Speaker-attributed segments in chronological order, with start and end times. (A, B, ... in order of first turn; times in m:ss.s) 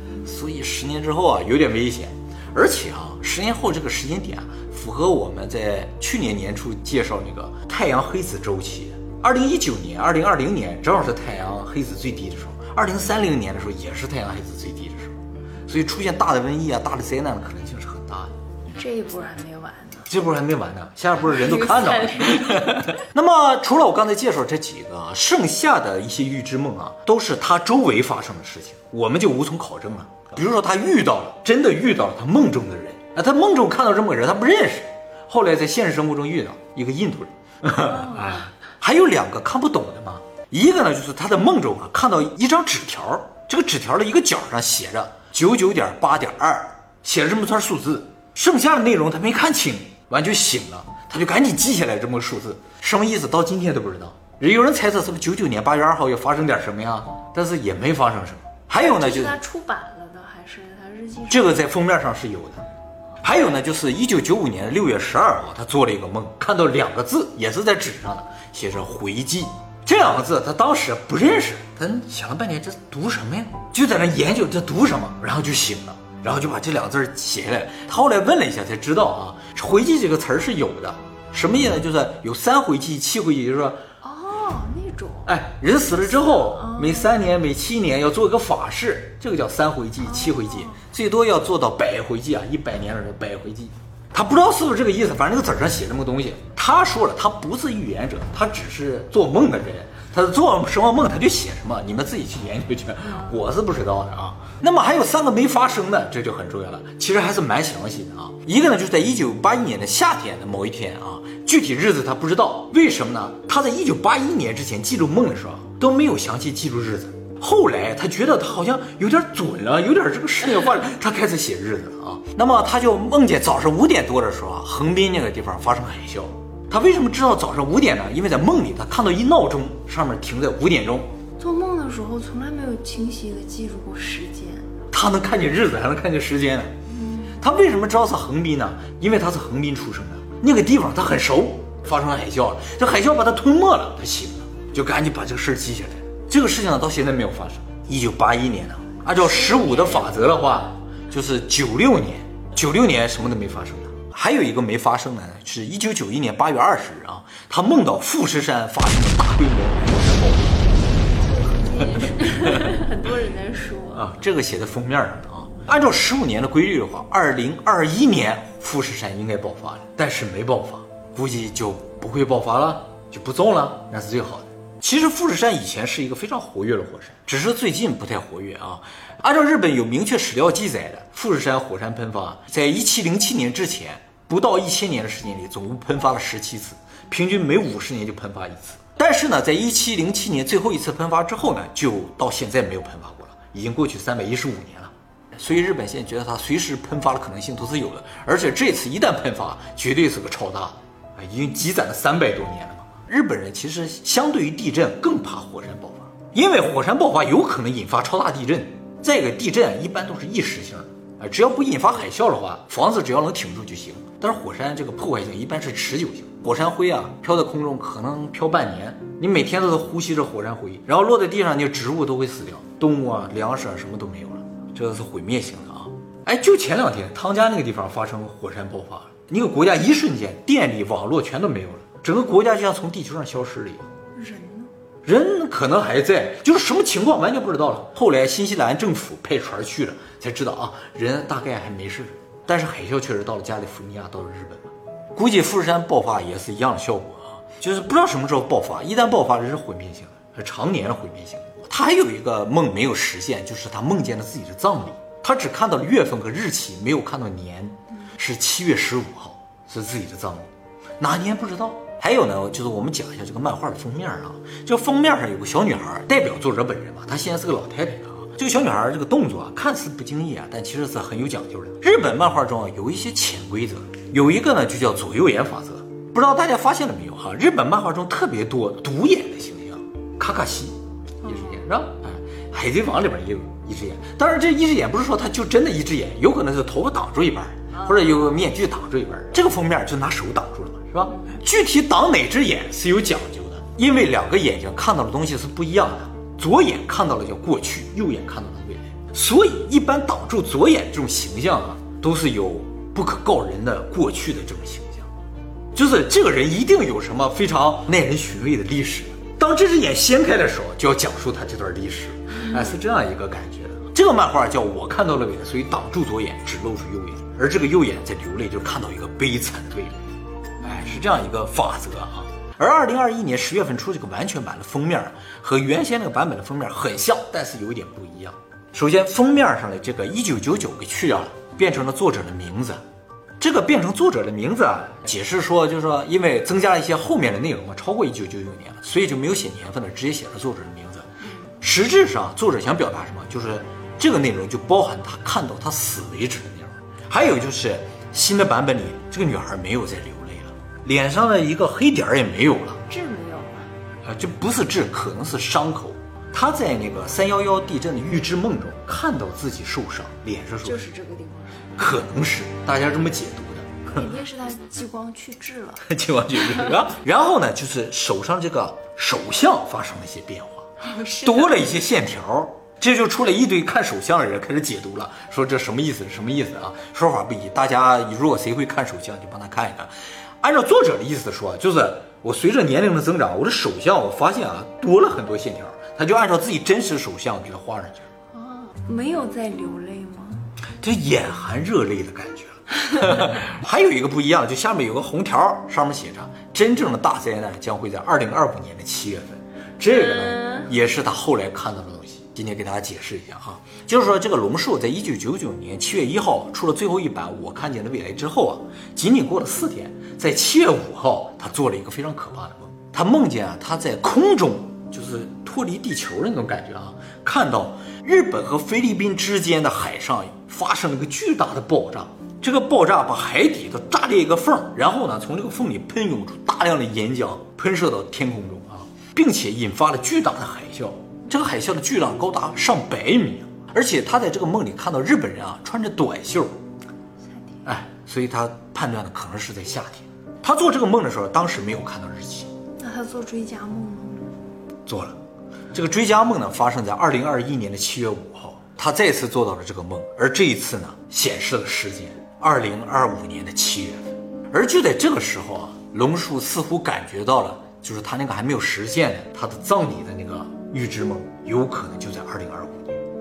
0:00.2-0:15.2 A
0:15.7-0:18.3 A
0:18.7-0:20.1 B
0:20.1-0:59.4 A
0:21.2-0:23.0 B
0:37.8-0:38.4 B
0:58.8-1:01.7 B
1:01.3-1:02.6 A
1:03.2-1:23.8 A
1:24.0-1:25.3 B
1:25.2-2:11.1 A
1:26.2-1:27.1 B
1:30.0-1:30.8 B
2:11.4-2:14.7 B
2:14.9-2:16.7 A
2:16.9-2:17.4 B
2:17.4-2:40.8 A
2:29.1-2:30.6 B
2:41.2-2:44.1 B
2:42.2-2:42.6 A
2:43.9-3:53.9 A
3:54.1-3:54.7 B
3:55.0-4:20.5 A
4:21.0-5:05.1 A
4:41.2-4:41.6 B
4:47.7-4:48.1 B
4:51.1-4:51.4 B
5:05.7-5:20.0 A
5:20.6-5:32.8 A
5:33.4-5:41.1 A
5:41.6-5:52.8 A
5:52.9-5:53.7 B
5:54.0-6:00.8 A
6:00.6-6:01.8 B
6:01.8-6:03.9 A
6:03.9-6:06.8 B
6:05.8-6:19.9 A
6:10.8-6:11.7 B
6:20.4-6:28.1 A
6:28.3-6:30.5 B
6:30.8-7:16.5 A
6:39.9-6:40.7 B
7:17.6-7:22.5 A
7:22.8-7:24.3 B
7:24.9-7:25.2 A
7:25.7-7:43.0 A